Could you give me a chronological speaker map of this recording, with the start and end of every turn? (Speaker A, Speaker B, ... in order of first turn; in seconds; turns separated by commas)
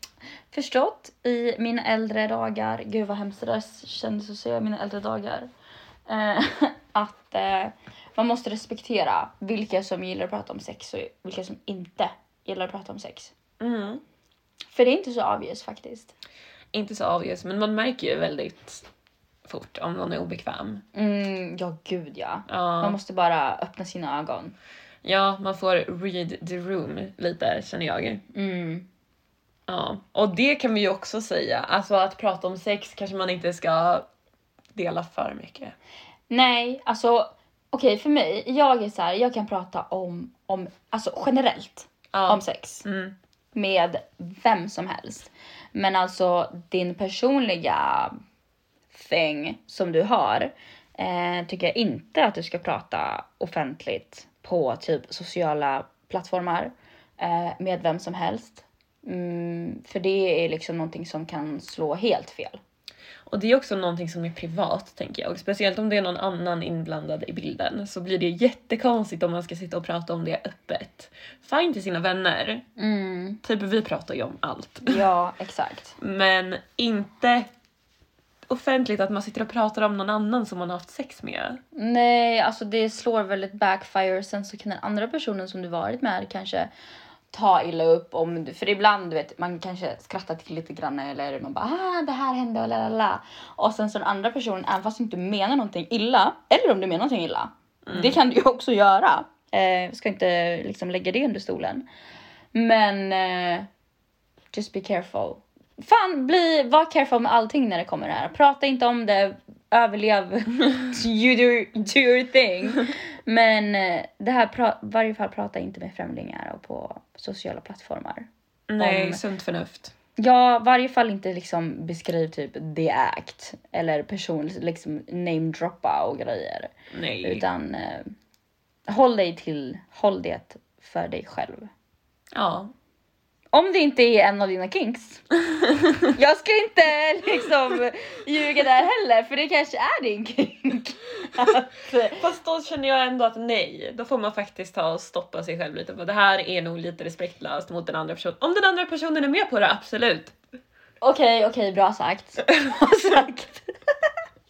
Speaker A: 0.5-5.5, Speaker A: 6.1-13.3, Speaker B: 13.6-14.0, Speaker A: 14.7-16.1, Speaker B: 16.7-18.9, Speaker B: 19.4-20.8, Speaker A: 20.9-24.6, Speaker B: 22.5-23.0, Speaker B: 25.0-28.2, Speaker A: 28.3-28.9, Speaker B: 29.7-34.1, Speaker B: 34.7-35.8, Speaker A: 36.3-42.9, Speaker B: 42.1-43.1, Speaker A: 43.5-48.2, Speaker A: 48.9-62.6, Speaker B: 63.3-72.6, Speaker A: 72.8-73.4, Speaker B: 73.4-75.0, Speaker A: 74.9-76.0, Speaker B: 76.0-77.5, Speaker B: 78.5-81.6, Speaker A: 81.8-86.7, Speaker A: 87.3-101.8, Speaker B: 97.9-98.2, Speaker A: 102.5-103.7, Speaker A: 104.5-118.3, Speaker B: 118.7-119.9, Speaker A: 118.8-119.2, Speaker A: 120.2-128.1, Speaker B: 126.9-127.5, Speaker A: 128.9-131.7, Speaker B: 132.3-132.7, Speaker A: 133.5-135.3, Speaker A: 136.0-142.2, Speaker B: 142.1-150.3, Speaker A: 151.0-153.7